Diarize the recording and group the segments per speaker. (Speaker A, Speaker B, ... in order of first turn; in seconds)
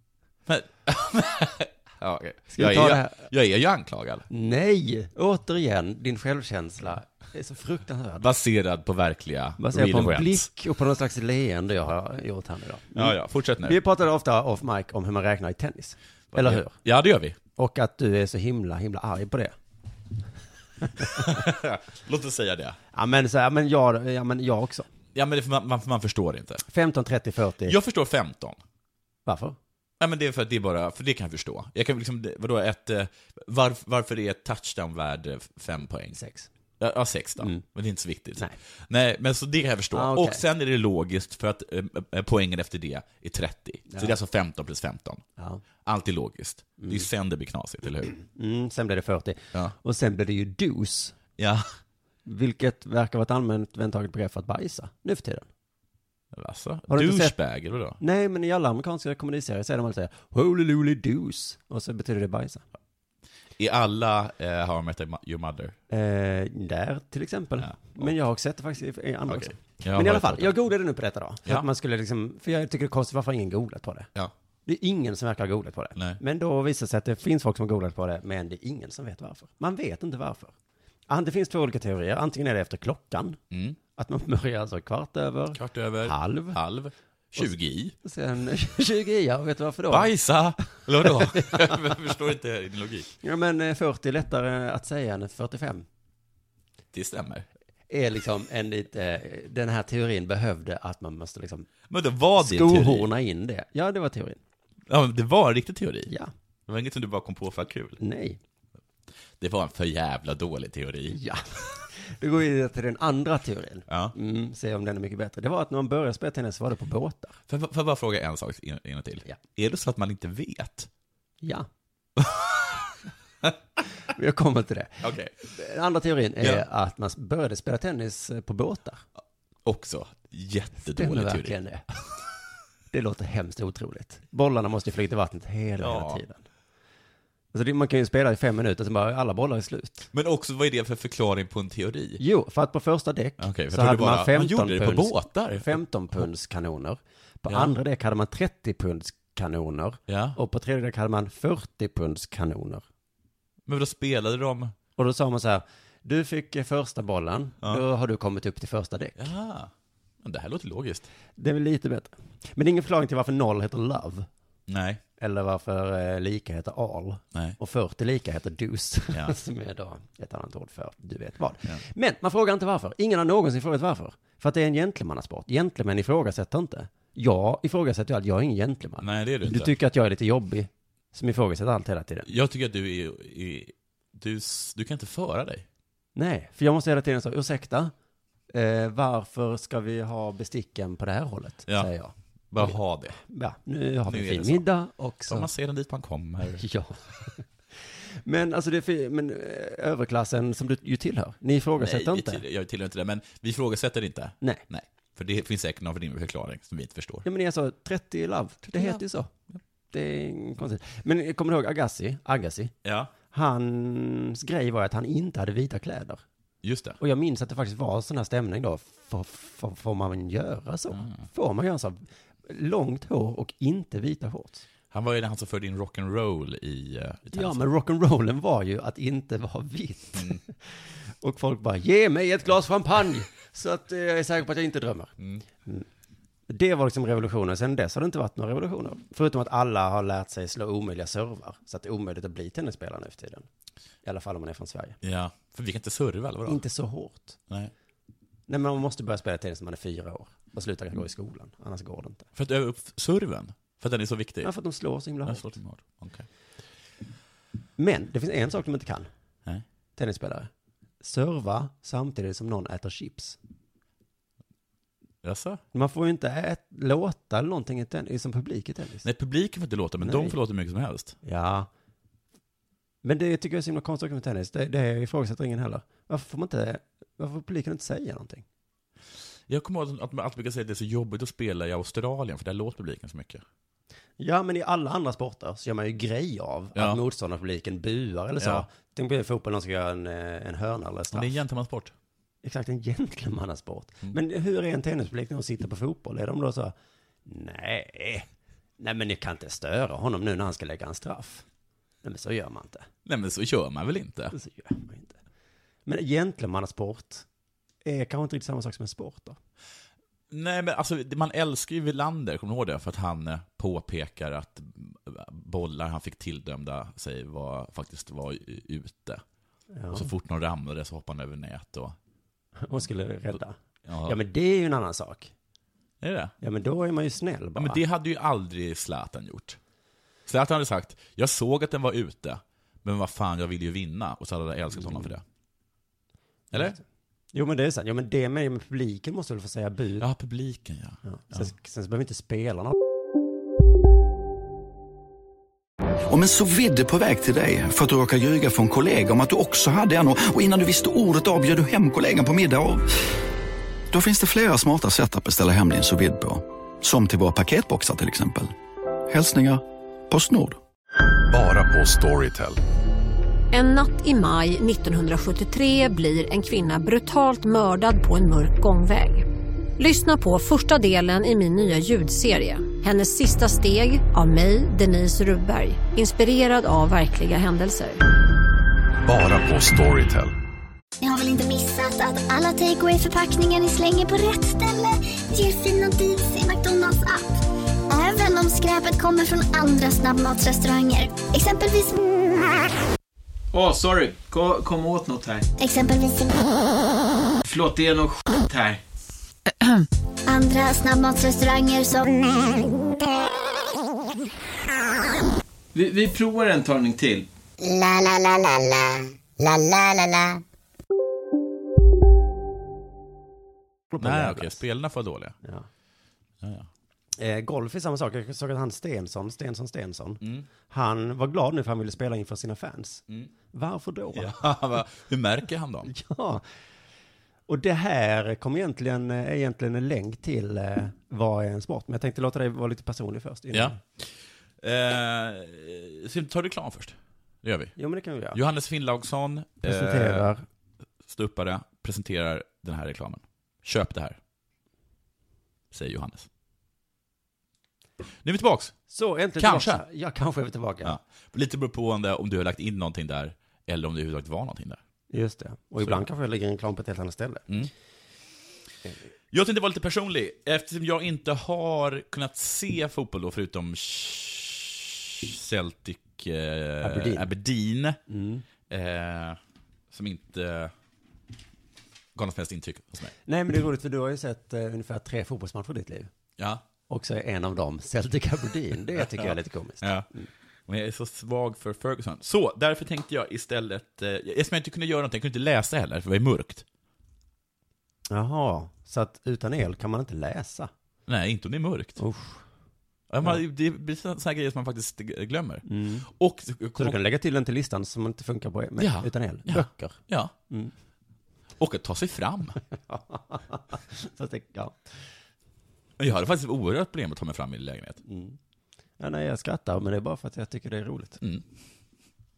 Speaker A: 0.5-4.2, 8.2-10.5, 12.9-13.8, 16.3-17.4, 21.1-22.8, 25.1-26.6, 27.6-28.6, 30.0-36.2, 36.8-45.2, 45.8-48.1, 51.4-51.7, 56.3-58.0, 63.6-65.8, 67.6-68.1, 69.3-70.5, 83.5-83.8, 85.5-87.9, 89.9-93.1, 96.9-97.5, 101.9-103.1, 104.9-106.1, 106.7-108.0, 109.4-111.2, 113.9-114.1, 117.5-120.9, 122.2-122.7, 125.0-125.3, 126.4-126.6, 129.6-131.6, 135.8-136.2, 140.1-142.2, 143.4-146.3, 147.5-147.7, 150.1-150.4, 153.7-154.7, 159.2-161.1, 164.7-165.0, 179.0-179.7, 182.2-185.7, 192.5-193.2, 194.1-194.7, 195.3-196.6, 201.8-207.2, 208.7-209.0, 212.8-213.1, 216.6-217.0, 220.9-221.2, 224.9-227.6, 235.2-235.4, 245.0-246.6, 252.3-254.5, 255.2-256.3, 265.2-265.6, 269.0-271.2, 279.5-283.4, 286.7-287.0, 288.4-288.6, 291.1-291.9, 303.1-304.3, 310.3-319.2, 319.9-321.9, 323.9-324.1, 326.0-326.3, 327.6-329.6, 330.2-335.2, 340.0-341.5, 414.0-415.4, 416.4-416.7, 420.2-420.5, 424.1-425.9, 433.5-437.7, 438.3-440.3, 441.0-444.2, 445.7-446.3, 448.2-448.8, 449.4-449.8, 450.8-454.8, 455.8-456.0, 459.3-468.0, 468.7-469.4, 469.9-470.7, 472.1-473.1, 476.4-476.6, 478.9-480.1, 480.7-486.6, 491.1-492.0, 493.1-497.0, 498.8-500.3, 501.6-502.6, 506.0-508.0, 511.2-511.4
Speaker B: 2.5-3.2, 4.3-8.3, 9.6-16.7, 17.6-19.5, 20.9-21.4, 22.9-24.9, 26.7-27.8, 29.2-29.6, 36.1-36.5, 39.9-40.4, 43.9-44.1, 45.4-45.6, 46.8-47.1, 48.2-51.1, 52.2-55.5, 56.9-57.3, 58.0-62.6, 65.9-74.1, 74.7-80.5, 81.1-83.4, 84.0-86.6, 87.4-90.1, 90.7-91.8, 93.2-95.8, 97.9-101.7, 102.4-104.4, 108.0-108.4, 111.1-117.4, 121.4-121.7, 124.0-129.0, 130.8-131.8, 132.9-136.4, 137.5-140.1, 142.2-152.8, 154.9-159.3, 161.4-164.3, 165.2-182.3, 186.1-187.9, 188.5-195.5, 196.6-202.4, 207.2-209.3, 209.9-212.7, 213.3-216.2, 217.0-224.6, 227.3-235.1, 236.5-243.5, 244.0-245.0, 246.4-247.4, 248.5-252.3, 254.4-255.6, 257.8-259.1, 260.0-260.5, 261.0-263.4, 265.7-269.1, 270.0-270.4, 271.2-271.7, 273.0-278.4, 284.2-291.4, 292.4-296.7, 297.2-298.3, 298.8-301.4, 302.0-302.9, 304.3-305.2, 305.9-307.2, 307.8-309.4, 319.7-320.1, 322.6-325.3, 326.4-327.8, 334.7-335.1, 336.5-336.8, 337.3-340.1, 341.0-342.7, 413.9-414.6, 417.2-424.4, 425.9-426.4, 427.5-433.8, 437.8-438.4, 439.6-440.4, 448.9-451.0, 455.1-457.5, 466.8-467.3, 468.1-468.4, 473.2-476.1, 476.9-480.3, 488.1-490.7, 492.0-492.4, 495.6-496.1, 496.8-500.0, 502.9-504.9, 508.1-508.4, 509.0-511.2
Speaker C: 346.1-353.0, 353.9-358.5, 359.1-360.6
Speaker D: 361.3-362.6, 379.0-380.3
Speaker E: 363.5-369.2, 369.8-378.0
Speaker F: 381.0-392.0, 395.6-396.5, 400.3-402.7
Speaker G: 393.5-395.4, 397.4-398.8, 405.7-407.2
Speaker H: 407.6-410.4